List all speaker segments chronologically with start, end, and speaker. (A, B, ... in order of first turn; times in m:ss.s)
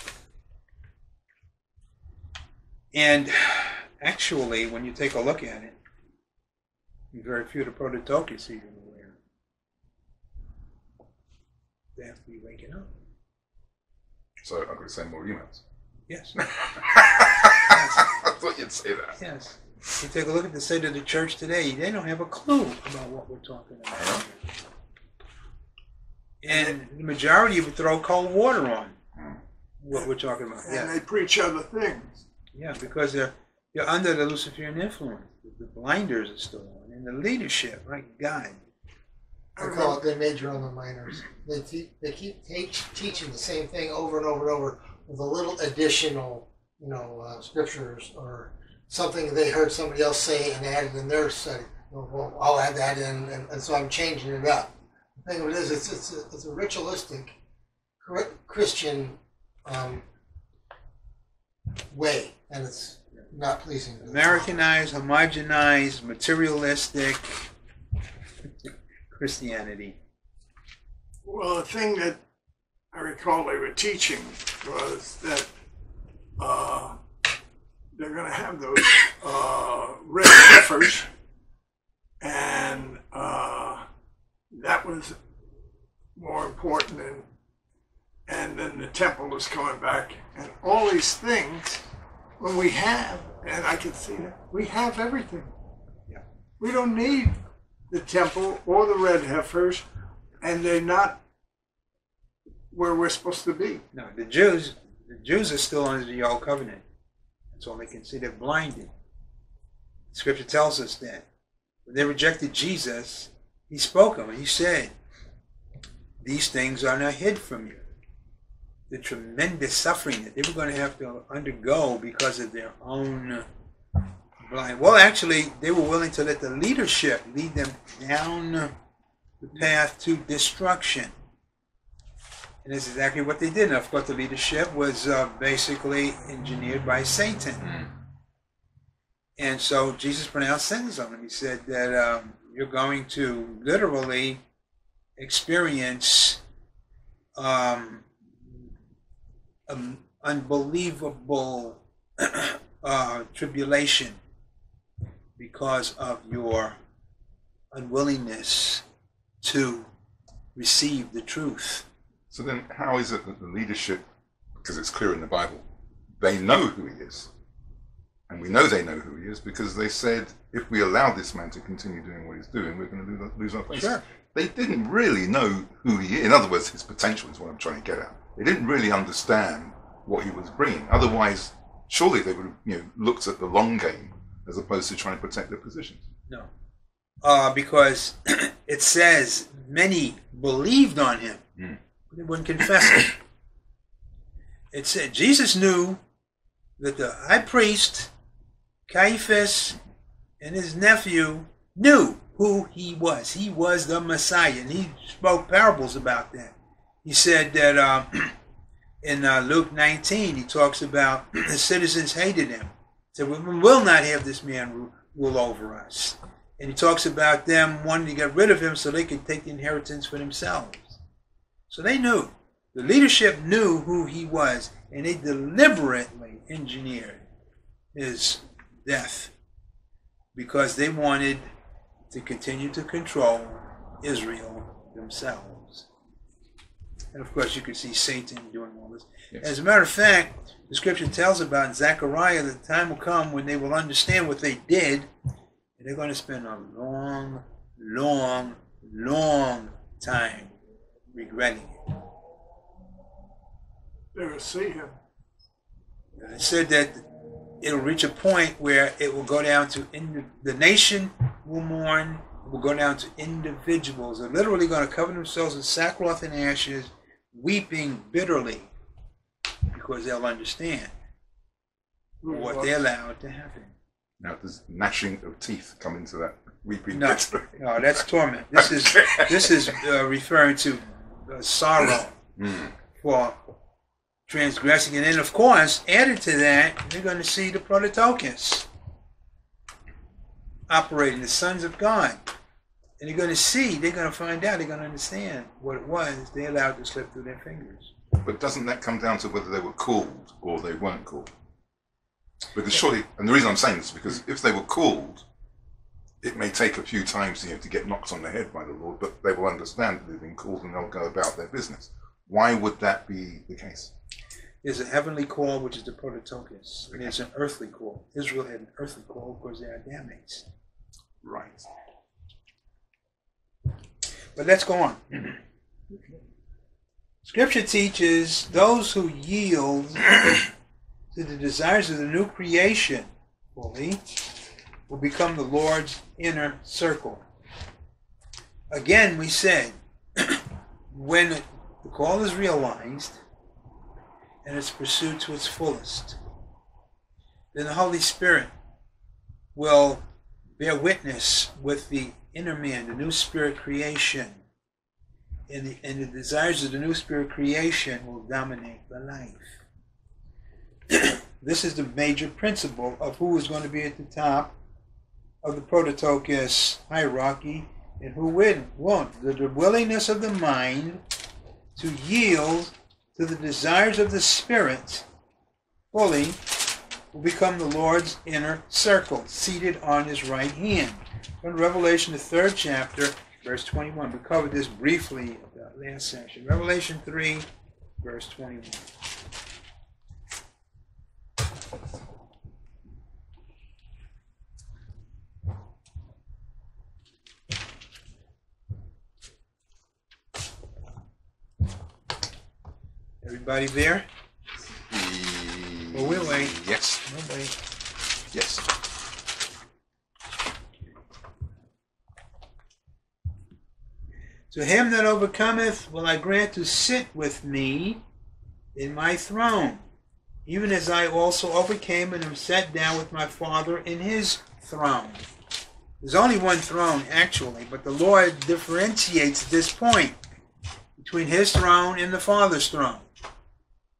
0:02.9-0:05.8 A
0:07.1-0:09.2 A
0:12.0-0:12.9 A
0:14.4-0:15.6 B
0:16.1-0:16.5 A
0:16.6-0:19.2 B
0:17.5-0:18.1 A
0:19.2-0:24.4 A
0:26.4-0:29.0 A
0:29.8-0:30.9 A
0:30.6-0:32.2 C
0:32.5-0:38.6 A
0:39.6-0:40.0 C
0:39.6-0:57.4 D
0:58.0-1:00.0 D
1:01.9-1:04.5 D
1:04.0-1:07.5 A
1:09.1-1:10.0 A
1:11.2-1:12.2 C
1:12.9-1:15.5 C
1:16.4-1:17.0 C
1:18.0-1:21.1 C
1:22.2-1:23.9 C
1:24.5-1:25.2 C
1:26.2-1:27.3 C
1:28.3-1:31.8 C
1:32.4-1:35.5 C
1:36.6-1:37.4 C
1:37.9-1:39.8 C
1:40.4-1:41.2 C
1:42.7-1:43.8 C
1:43.9-1:46.8 A
1:47.5-1:48.9 A
1:50.1-1:51.2 A
1:51.9-1:54.9 A
1:56.2-1:57.8 A
1:58.9-2:03.4 A
2:04.4-2:08.7 A
2:09.4-2:11.1 A
2:12.6-2:17.8 A
2:19.4-2:24.4 A
2:25.2-2:26.4 A
2:27.4-2:28.1 A
2:29.7-2:34.2 A
2:35.4-2:36.8 A
2:37.7-2:38.8 A
2:39.4-2:39.9 A
2:40.6-2:41.8 A
2:42.3-2:44.0 B
2:44.6-2:45.7 B
2:46.2-2:47.3 B
2:48.3-3:06.0 B
2:53.7-2:54.0 A
3:07.2-3:11.4 A
3:12.1-3:13.2 A
3:14.7-3:16.0 A
3:16.8-3:18.1 A
3:18.9-3:19.8 A
3:20.4-3:28.4 A
3:29.0-3:41.0 A
3:41.7-3:47.2 A
3:48.0-3:49.3 A
3:50.4-3:51.5 A
3:52.1-3:55.9 A
3:57.1-4:05.1 A
4:05.8-4:10.5 A
4:11.1-4:11.8 A
4:14.1-4:15.0 C
4:16.2-4:17.0 A
4:17.6-4:28.7 A
4:29.7-4:30.9 A
4:32.2-4:32.8 C
4:32.3-4:33.7 A
4:34.2-4:37.6 B
4:36.9-4:42.2 A
4:38.6-4:39.7 B
4:42.4-4:42.7 B
4:43.0-4:43.4 A
4:44.3-4:48.7 A
4:50.7-4:52.2 A
4:53.0-4:57.9 A
4:58.2-5:01.3 B
5:02.5-5:05.2 B
5:06.2-5:13.9 B
5:14.6-5:20.4 A
5:21.2-5:21.7 B
5:24.4-5:25.4 A
5:25.9-5:26.2 C
5:27.2-5:30.4 A
5:31.1-5:34.2 A
5:34.9-5:37.2 A
5:38.7-5:43.2 A
5:44.4-5:46.2 A
5:47.5-5:48.5 A
5:49.5-5:50.0 A
5:50.6-5:54.4 A
5:55.5-5:59.6 A
6:00.9-6:04.6 A
6:05.4-6:11.0 A
6:11.8-6:15.0 A
6:15.9-6:16.4 A
6:17.1-6:27.5 A
6:28.0-6:28.9 A
6:43.2-6:44.1 A
6:44.9-6:47.0 B
6:45.9-6:47.6 A
6:48.3-6:48.6 B
6:54.5-6:58.0 A
6:58.8-6:59.8 A
7:00.5-7:05.2 A
7:06.0-7:10.2 A
7:11.0-7:13.1 A